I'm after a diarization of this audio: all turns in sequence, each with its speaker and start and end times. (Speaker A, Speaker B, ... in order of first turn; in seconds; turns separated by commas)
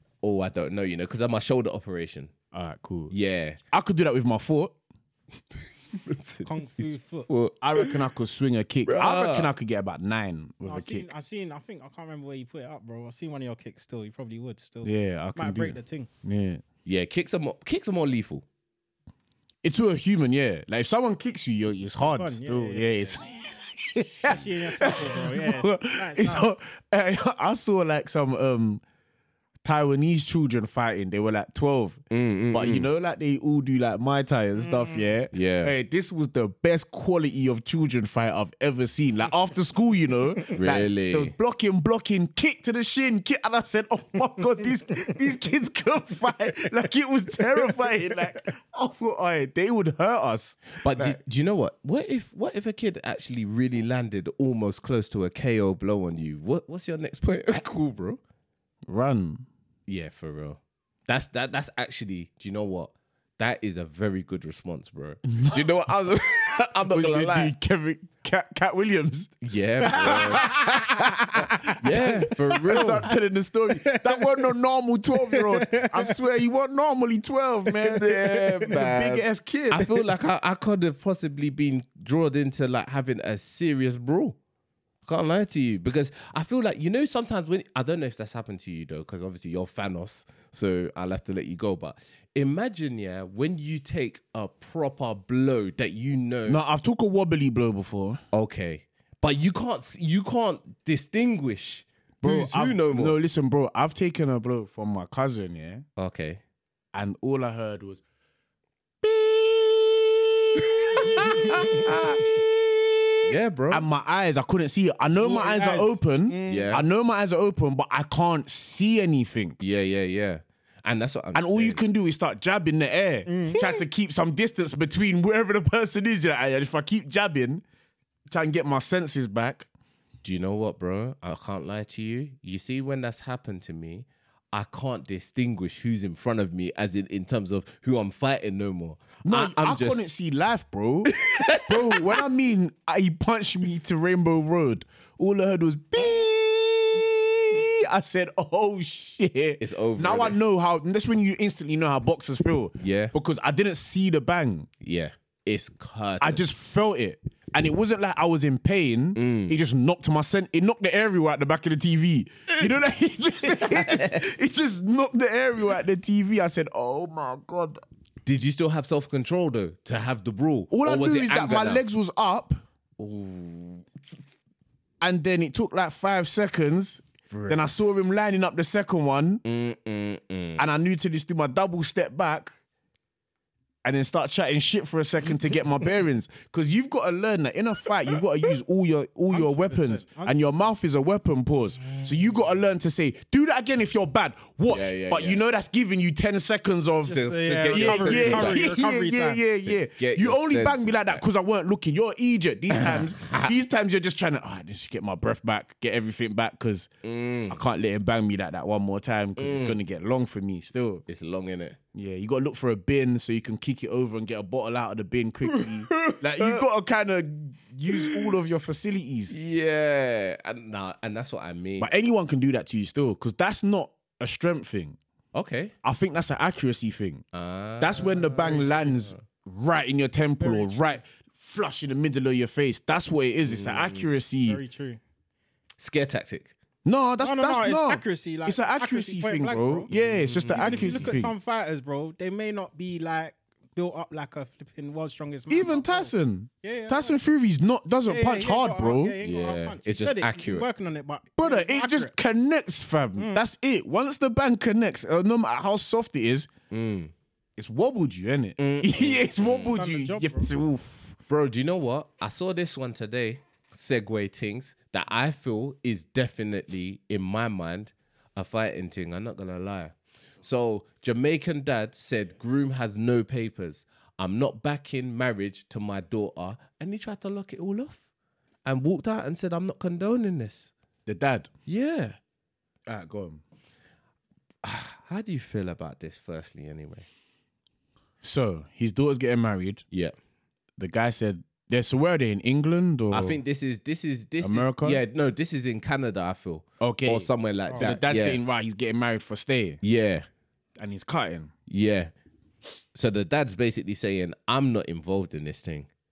Speaker A: 0.2-2.3, Speaker B: 2.5-3.1, Speaker A: 3.1-3.6, Speaker B: 3.7-4.8, Speaker A: 6.0-8.0, Speaker C: 6.5-7.3, Speaker B: 7.6-11.1, Speaker A: 8.9-9.5, Speaker C: 10.6-16.1, Speaker B: 14.8-16.6, Speaker A: 16.9-18.4, Speaker B: 19.6-28.8, Speaker C: 22.0-23.2, Speaker C: 24.2-26.5, Speaker B: 29.6-51.2, Speaker A: 32.1-32.9, Speaker C: 34.7-35.0, Speaker A: 35.3-35.7, Speaker A: 40.5-41.3, Speaker A: 50.8-58.2, Speaker B: 58.9-59.5, Speaker A: 59.9-67.5, Speaker B: 65.3-65.6, Speaker B: 66.9-80.0, Speaker A: 69.4-70.5, Speaker C: 69.9-70.6, Speaker C: 71.6-72.9, Speaker A: 71.7-73.1, Speaker C: 73.7-74.5, Speaker C: 75.2-76.2, Speaker A: 77.9-84.4, Speaker A: 85.0-96.6, Speaker B: 96.5-98.2, Speaker A: 98.3-103.2, Speaker B: 102.2-105.8, Speaker A: 106.0-106.4, Speaker B: 106.9-108.0, Speaker B: 109.0-119.6, Speaker A: 110.6-112.2, Speaker A: 113.2-113.8, Speaker C: 115.2-116.8, Speaker A: 116.5-116.8, Speaker A: 119.6-121.8, Speaker B: 121.3-127.6, Speaker C: 123.3-123.8, Speaker B: 128.3-129.7, Speaker A: 130.2-140.1, Speaker B: 139.2-154.7, Speaker A: 141.1-142.2, Speaker A: 149.6-150.4, Speaker A: 152.8-153.1, Speaker A: 154.8-156.4, Speaker B: 156.2-167.8, Speaker A: 159.2-159.6, Speaker A: 163.4-164.2, Speaker A: 168.2-171.8, Speaker B: 170.7-172.6, Speaker A: 173.0-173.9, Speaker B: 175.0-179.4, Speaker A: 177.3-177.6, Speaker A: 179.4-180.6, Speaker B: 180.6-182.6, Speaker B: 183.8-206.9, Speaker C: 189.3-190.6, Speaker A: 194.7-195.4, Speaker C: 197.1-199.4, Speaker A: 197.1-198.7, Speaker A: 199.7-201.2, Speaker A: 202.7-203.5, Speaker A: 207.0-207.6, Speaker B: 207.5-211.0, Speaker A: 209.4-209.8, Speaker A: 211.1-211.8, Speaker B: 211.9-219.4, Speaker A: 215.5-216.6, Speaker A: 217.9-218.3, Speaker A: 219.3-221.9, Speaker B: 221.8-225.0, Speaker A: 225.3-225.7, Speaker B: 225.8-227.2, Speaker A: 227.3-229.2, Speaker B: 227.8-234.6, Speaker C: 228.4-228.7, Speaker C: 230.4-231.0, Speaker A: 233.4-234.1, Speaker C: 234.5-235.0, Speaker A: 235.8-236.5, Speaker B: 236.8-241.3, Speaker C: 237.2-239.9, Speaker A: 240.2-241.2, Speaker C: 240.5-247.2, Speaker B: 245.5-249.2, Speaker C: 248.1-252.1, Speaker A: 249.2-250.7, Speaker B: 251.4-256.5, Speaker C: 253.2-253.4, Speaker A: 256.7-257.1, Speaker B: 257.6-261.2, Speaker A: 258.6-259.8, Speaker C: 259.7-260.5, Speaker A: 261.3-278.0, Speaker A: 278.6-280.7, Speaker B: 281.1-281.5, Speaker A: 281.7-282.2, Speaker B: 282.9-283.4, Speaker A: 284.6-287.1, Speaker B: 288.2-289.8, Speaker B: 290.8-293.4, Speaker A: 293.1-298.4, Speaker B: 294.4-295.0, Speaker B: 296.8-299.8, Speaker C: 297.7-298.0, Speaker A: 299.8-300.3, Speaker B: 300.8-301.5, Speaker A: 301.7-302.1, Speaker A: 302.7-305.9